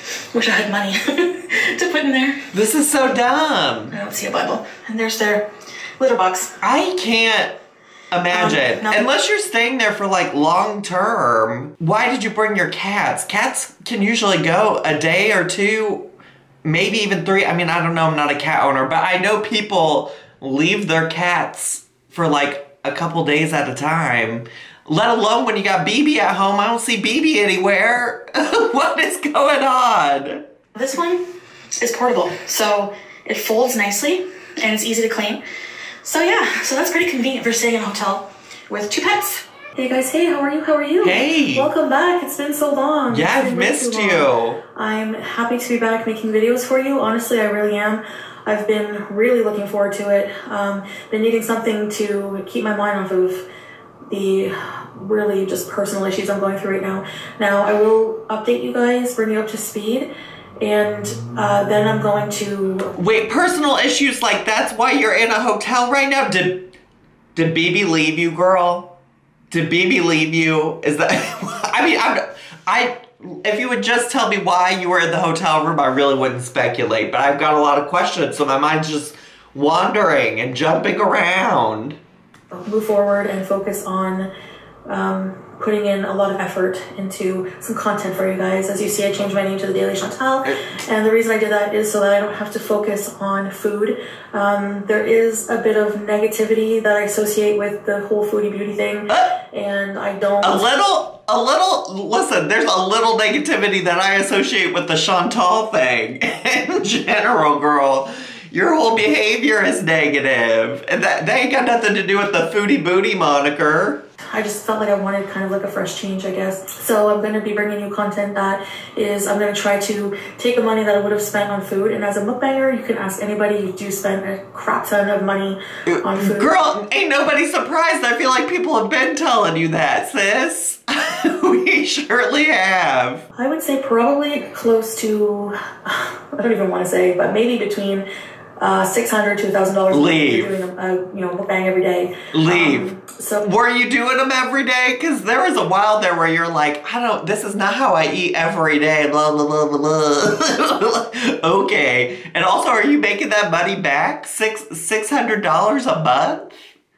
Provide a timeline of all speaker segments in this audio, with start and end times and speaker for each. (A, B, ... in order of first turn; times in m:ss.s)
0:00.3-0:02.4 A
0:02.5-0:04.0 B
0:03.9-0:05.5 A
0:06.0-0:06.5 A
0:06.6-0:07.5 B
0:08.1-0:16.0 B
0:08.3-0:09.0 A
0:16.6-0:30.4 B
0:30.7-0:31.2 A
0:31.8-0:35.4 A
0:36.0-0:53.4 A
0:41.0-0:41.7 B
0:43.1-0:44.6 B
0:54.1-1:00.1 A
1:00.6-1:02.9 A
1:03.0-1:06.7 B
1:07.4-1:08.9 B
1:09.5-1:22.0 B
1:22.5-1:24.3 A
1:24.9-1:40.6 A
1:30.4-1:30.8 B
1:39.1-1:39.4 B
1:40.4-1:54.0 B
1:54.2-2:06.5 A
2:05.9-2:13.2 B
2:13.3-2:18.0 A
2:18.6-2:23.4 A
2:19.9-2:20.5 B
2:22.3-2:36.5 B